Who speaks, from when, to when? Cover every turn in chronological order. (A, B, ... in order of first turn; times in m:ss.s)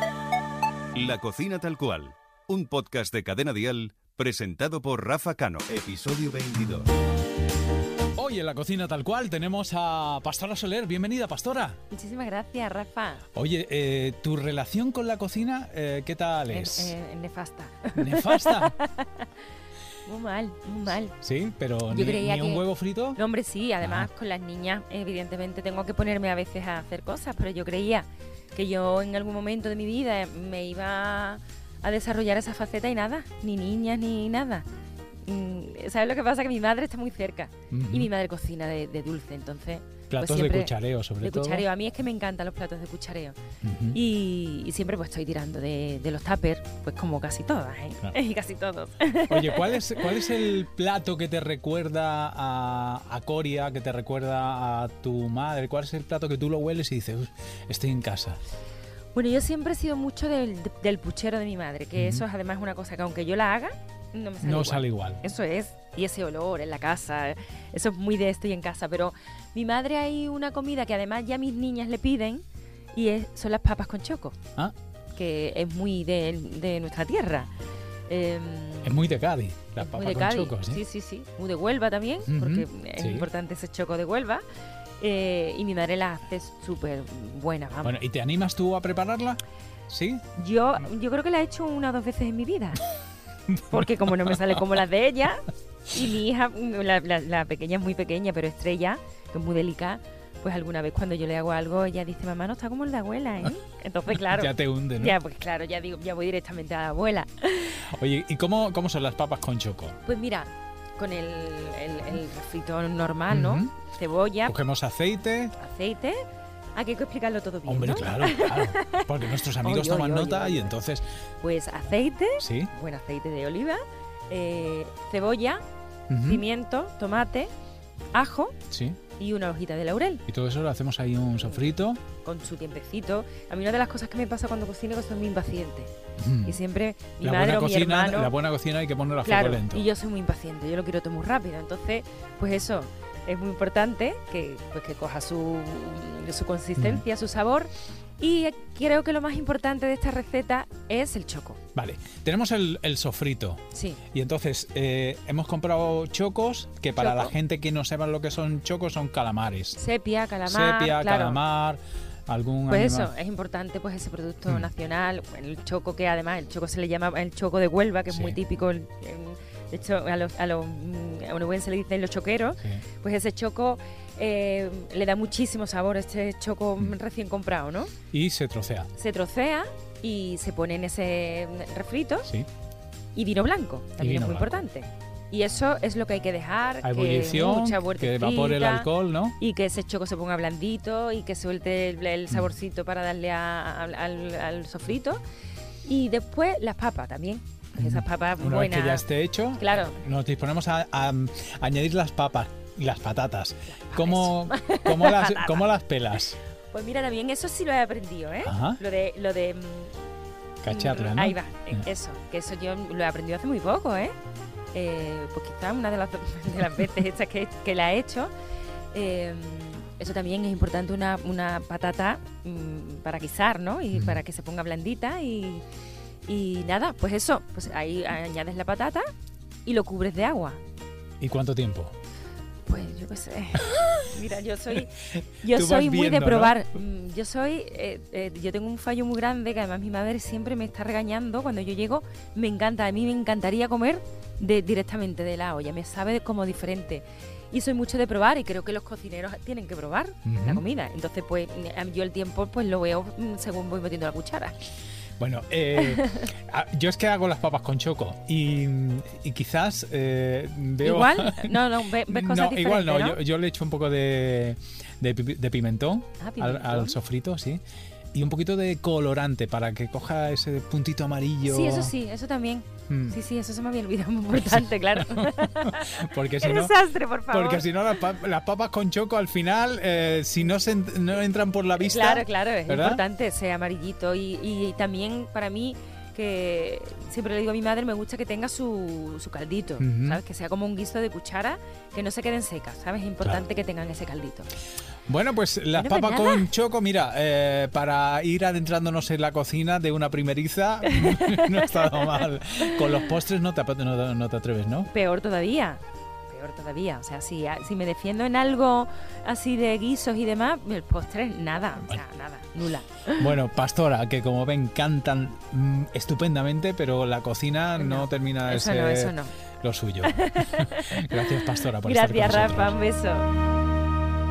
0:00.9-0:06.9 A
0:08.2-0:11.8 B
0:11.9-0:13.2 C
0:13.3-0:16.9 B
0:16.5-0:19.3 C
0:17.9-0:18.8 B
0:20.0-0:21.2 C
0:21.2-0:23.2 B
0:21.9-0:34.6 C
0:23.8-0:24.1 B
0:35.2-0:43.4 C
0:37.7-0:38.1 B
0:40.1-0:41.6 B
0:43.6-0:44.0 B
0:43.9-0:49.9 C
0:49.3-0:58.4 B
0:59.1-1:14.4 C
1:02.0-1:02.2 B
1:04.4-1:05.2 B
1:15.1-1:17.5 C
1:18.1-1:19.0 C
1:18.8-1:20.8 B
1:19.8-1:24.4 C
1:22.3-1:23.3 B
1:25.0-1:28.0 C
1:27.8-1:30.2 B
1:30.3-1:32.8 C
1:33.5-1:34.6 B
1:33.7-1:47.9 C
1:44.1-1:45.2 B
1:47.9-1:50.0 B
1:50.0-1:54.5 C
1:53.3-1:53.7 B
1:54.4-1:55.5 B
1:55.6-1:56.2 C
1:56.7-2:00.7 C
1:57.6-2:01.0 B
2:01.4-2:05.6 C
2:02.4-2:02.7 B
2:06.1-2:06.4 B
2:06.2-2:07.5 C
2:08.1-2:08.5 C
2:08.7-2:09.0 B
2:09.2-2:10.2 C
2:10.3-2:12.0 B
2:12.2-2:15.9 C
2:16.2-2:16.6 B
2:16.4-2:18.3 C
2:17.2-2:19.9 B
2:19.2-2:31.6 C
2:26.8-2:27.0 B
2:31.7-2:39.8 B
2:33.7-2:34.0 C
2:37.0-2:37.3 C
2:39.7-2:41.4 C
2:40.4-2:43.1 B
2:42.7-2:57.9 C
2:48.1-2:48.4 B
2:58.1-2:58.9 B
2:59.0-3:02.3 C
3:03.1-3:15.2 C
3:04.0-3:04.6 B
3:06.8-3:09.4 B
3:15.8-3:20.0 C
3:17.8-3:26.4 B
3:23.7-3:25.7 C
3:26.7-3:30.0 C
3:28.4-3:28.8 B
3:30.6-3:31.8 B
3:30.6-3:34.1 C
3:34.7-3:38.3 C
3:38.9-3:45.6 C
3:43.9-3:44.2 B
3:46.2-3:49.0 C
3:49.6-3:50.6 C
3:51.2-3:51.9 B
3:52.6-4:14.6 C
3:55.4-3:56.6 B
4:10.2-4:10.6 B
4:15.2-4:27.6 B
4:15.8-4:16.3 C
4:20.8-4:23.2 C
4:26.2-4:27.0 C
4:28.1-4:31.9 B
4:31.4-4:37.8 C
4:32.9-4:33.2 B
4:34.4-4:43.0 B
4:41.8-4:54.5 C
4:49.8-4:50.2 B
4:55.1-5:04.9 B
4:55.7-4:56.5 C
5:00.9-5:02.8 C
5:04.9-5:13.4 C
5:13.2-5:22.8 B
5:17.8-5:19.3 C
5:20.0-5:21.2 C
5:21.8-5:23.3 C